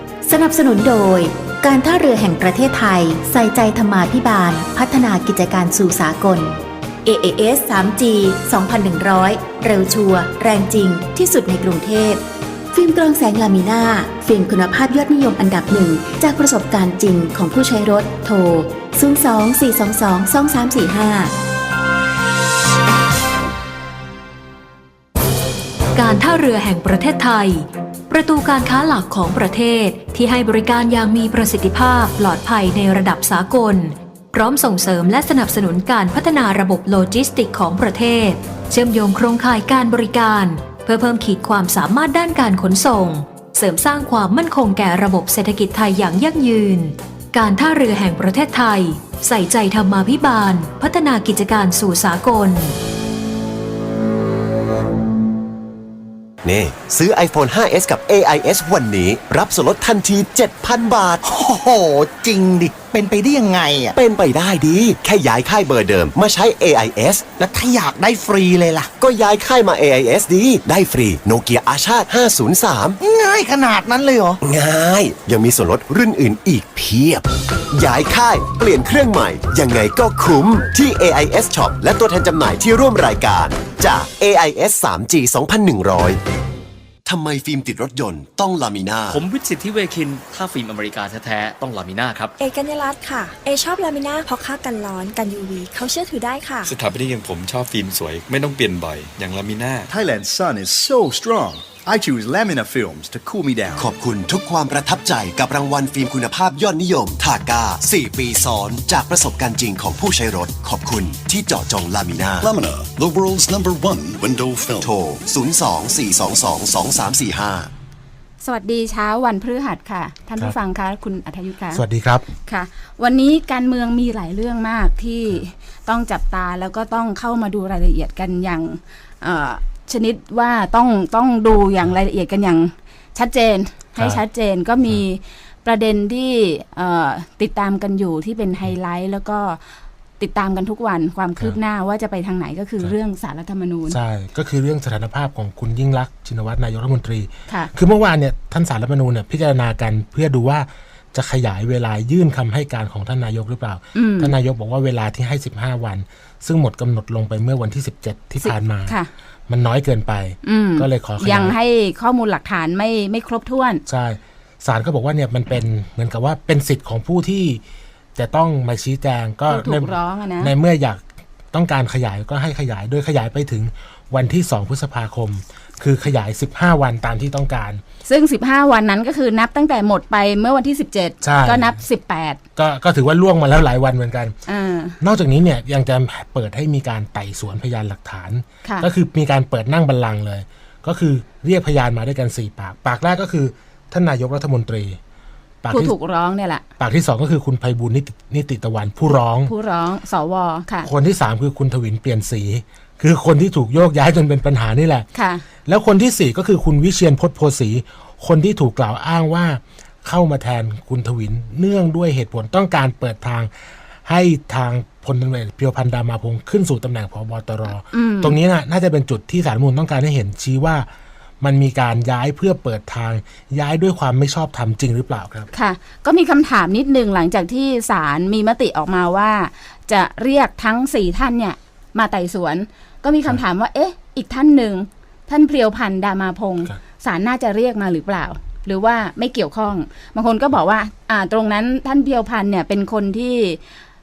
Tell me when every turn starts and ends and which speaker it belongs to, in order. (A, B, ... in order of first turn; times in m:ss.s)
0:00.2-0:21.3 A
0:25.9-0:52.7 B
0:56.4-1:01.2 C
1:01.2-1:03.9 D
1:03.9-1:07.2 C
1:07.4-1:08.9 D
1:09.0-1:13.0 C
1:13.0-1:14.4 D
1:14.4-1:26.2 C
1:27.0-1:29.2 C
1:29.1-1:32.3 E
1:32.4-1:36.7 F
1:36.7-1:39.9 G
1:39.9-1:43.9 H
1:43.8-1:52.5 C
1:52.4-1:54.9 I
1:54.8-1:57.7 C
1:58.4-2:01.8 J
2:01.7-2:02.2 K
2:02.4-2:19.6 J
2:20.2-2:24.0 J
2:23.9-2:38.9 K
2:33.9-2:34.3 J
2:38.4-2:39.1 J
2:39.5-2:41.6 K
2:40.4-2:43.8 J
2:43.8-2:47.6 K
2:48.1-2:57.8 K
2:49.5-2:50.5 J
2:58.0-3:02.4 J
3:01.2-3:01.8 K
3:02.6-3:04.3 K
3:04.5-3:05.0 J
3:05.0-3:15.0 K
3:15.6-3:15.9 K
3:15.7-3:16.6 J
3:16.8-3:19.5 K
3:19.4-3:20.9 J
3:20.8-3:25.1 K
3:25.1-3:25.4 J
3:25.6-3:33.5 K
3:34.0-3:40.9 K
3:37.9-3:38.4 J
3:41.4-3:45.5 K
3:45.5-4:03.6 J